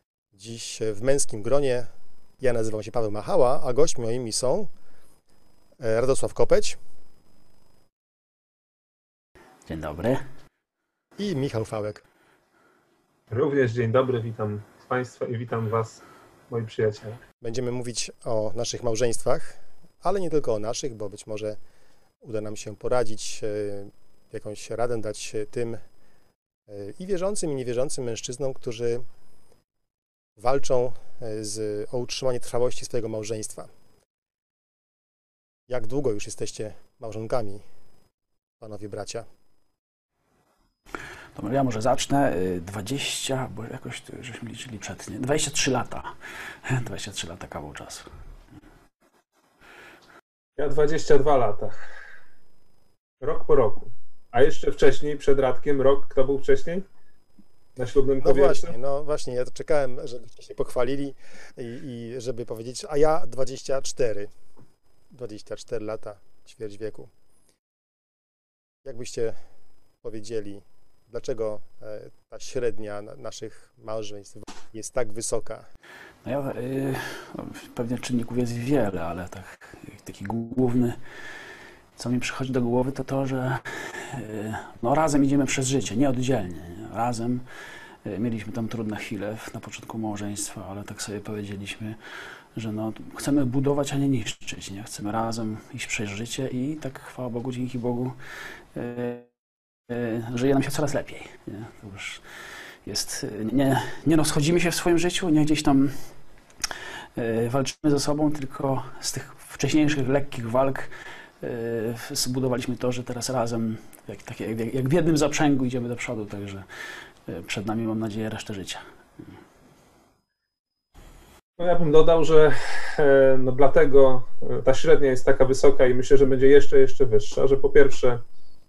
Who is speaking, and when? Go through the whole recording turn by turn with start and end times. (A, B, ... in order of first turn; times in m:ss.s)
0:00.3-0:01.9 A
0:02.4-0:04.7 A
0:05.8-0:06.8 A
0:09.7-0:10.2 B
0:11.2-0:12.0 A
0:13.3-0:17.2 C
0:17.4-0:21.6 A
0:22.2-0:25.8 A
0:26.7-0:29.1 A
0:30.4-0:33.7 A
0:35.7-0:37.6 A
0:38.6-0:39.3 A
0:41.4-0:46.1 B
0:46.7-0:48.1 B
0:50.6-0:51.8 C
0:53.2-0:56.8 C
0:57.8-0:58.8 C
0:58.2-1:04.3 A
1:05.1-1:07.1 A
1:08.8-1:09.4 A
1:10.0-1:15.7 A
1:16.2-1:21.0 B
1:22.0-1:27.5 B
1:28.0-1:32.0 B
1:32.6-1:38.2 B
1:38.7-1:39.3 B
1:39.9-1:42.2 B
1:42.8-1:46.1 B
1:47.2-1:56.7 B
1:57.3-1:58.8 B
2:01.6-2:08.2 C